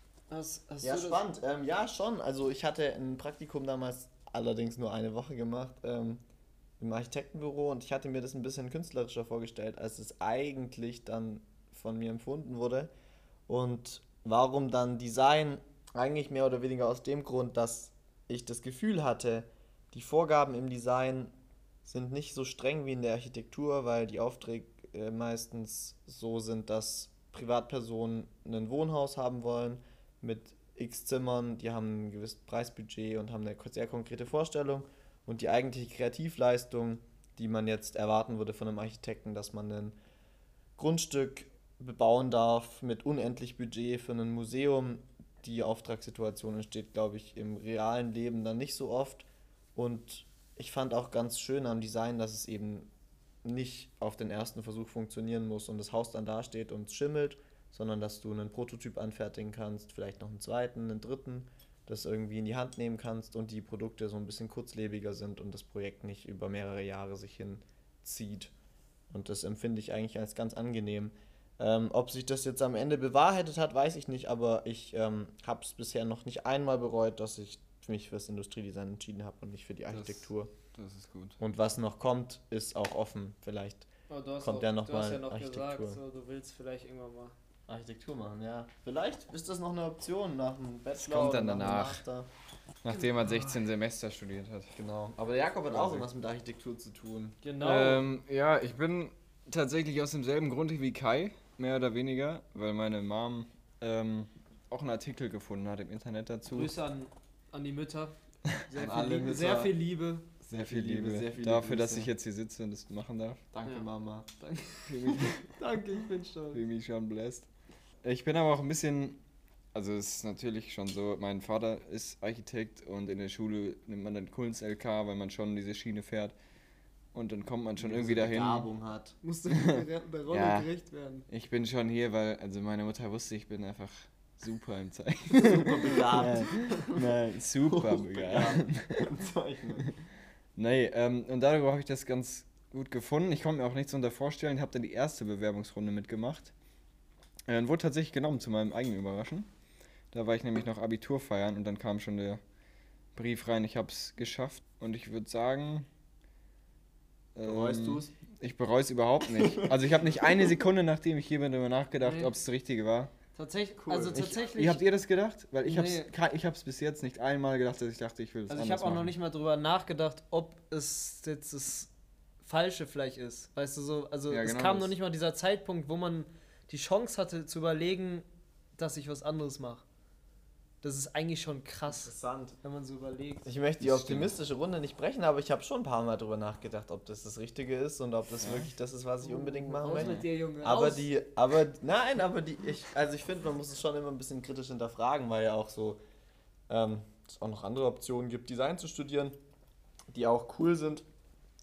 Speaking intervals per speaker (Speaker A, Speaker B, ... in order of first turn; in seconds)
Speaker A: 0.3-1.2, 84.1-87.3, 97.4-98.1, 106.5-110.2, 114.4-116.6, 129.2-131.2, 162.0-162.3, 163.3-164.8, 165.6-166.1, 168.5-171.9, 172.4-178.2, 178.8-179.8, 180.8-183.5, 189.2-191.1
Speaker B: 0.8-6.2, 6.8-12.9, 13.5-21.3, 21.8-40.0, 40.8-52.9, 53.4-68.5, 69.1-80.5, 81.4-83.9, 84.4-86.0, 87.7-92.3, 94.7-97.4, 108.7-109.7, 110.4-112.1, 113.5-114.3, 127.8-129.2, 135.3-139.9, 157.4-158.1, 159.3-160.5, 163.8-164.5, 182.0-182.6, 183.4-196.0, 196.7-199.4, 200.1-201.1
Speaker C: 79.9-81.4, 91.0-92.0, 92.8-94.7, 95.7-96.0, 97.6-106.7, 110.5-113.4, 114.9-115.6, 116.5-117.5, 118.0-119.2, 119.7-126.3, 127.1-128.7, 129.5-130.7, 131.3-139.1, 140.6-146.5, 147.5-149.5, 150.1-152.4, 153.1-155.9, 157.3-163.1, 164.1-169.1, 174.3-174.9, 183.8-184.3, 188.4-188.7